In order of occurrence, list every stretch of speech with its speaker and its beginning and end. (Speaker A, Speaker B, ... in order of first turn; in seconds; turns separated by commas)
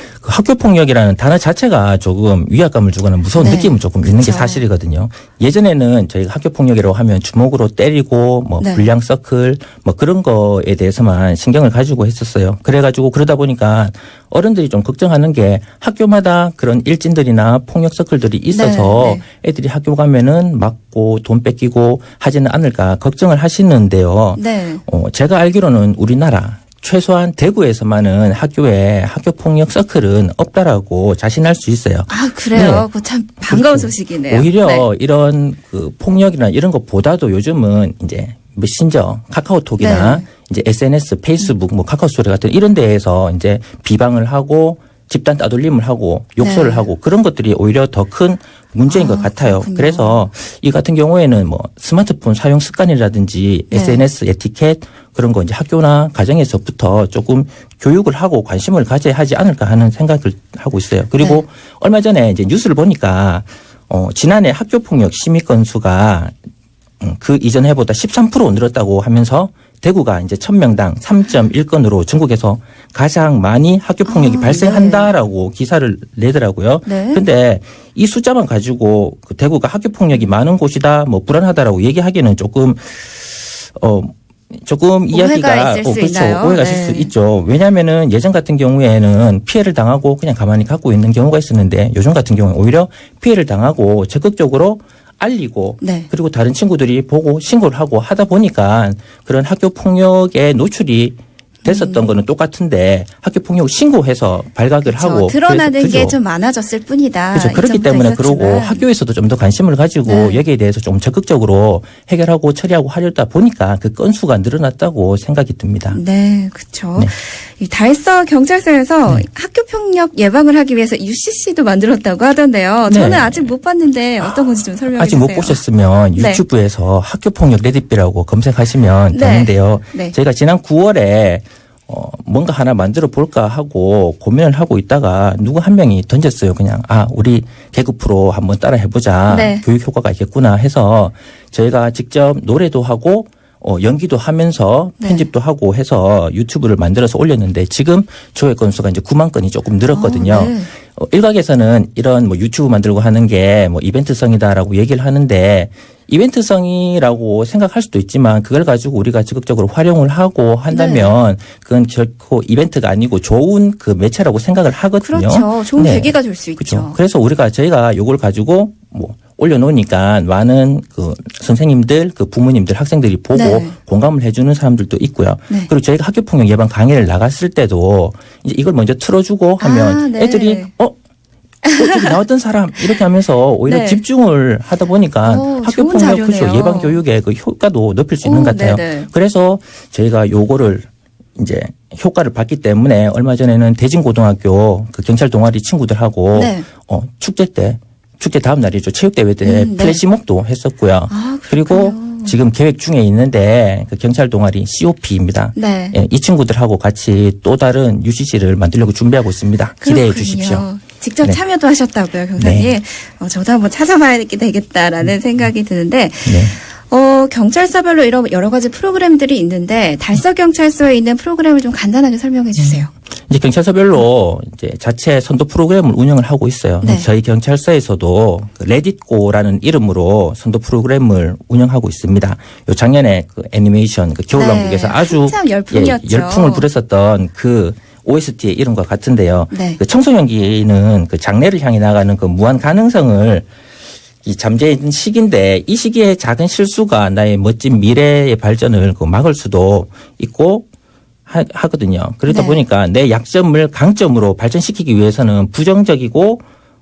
Speaker A: 0.2-32.9, Speaker B: 3.3-4.6, Speaker B: 8.6-8.9, Speaker B: 18.5-19.2, Speaker B: 24.4-24.8, Speaker B: 32.1-34.8, Speaker A: 33.4-66.3, Speaker B: 39.8-40.2, Speaker B: 46.4-46.9, Speaker B: 48.9-50.2, Speaker B: 53.7-54.0, Speaker A: 67.0-106.2, Speaker B: 74.0-75.1, Speaker B: 76.8-77.2, Speaker B: 85.1-87.1, Speaker B: 95.8-96.1, Speaker B: 101.6-102.1, Speaker B: 104.8-108.8, Speaker A: 107.3-116.0, Speaker B: 110.0-110.4, Speaker B: 115.9-125.6, Speaker A: 122.9-123.5, Speaker A: 124.9-180.9, Speaker B: 126.1-126.4, Speaker B: 129.1-130.1, Speaker B: 139.3-139.6, Speaker B: 145.0-145.3, Speaker B: 149.9-150.7, Speaker B: 160.7-161.1, Speaker B: 165.0-167.0, Speaker B: 173.3-173.7, Speaker B: 179.6-180.7, Speaker B: 181.6-182.2, Speaker A: 181.7-210.7, Speaker B: 183.7-184.0, Speaker B: 185.2-187.0, Speaker B: 188.2-189.1, Speaker B: 196.3-196.7, Speaker B: 199.4-200.0, Speaker B: 201.1-202.4, Speaker B: 205.5-206.0, Speaker B: 209.8-222.9, Speaker A: 212.4-212.7, Speaker A: 216.2-216.6, Speaker A: 222.6-243.5, Speaker B: 226.8-227.1, Speaker B: 234.3-236.7, Speaker B: 239.5-239.8, Speaker A: 244.2-250.7, Speaker A: 251.2-256.4, Speaker B: 252.3-252.6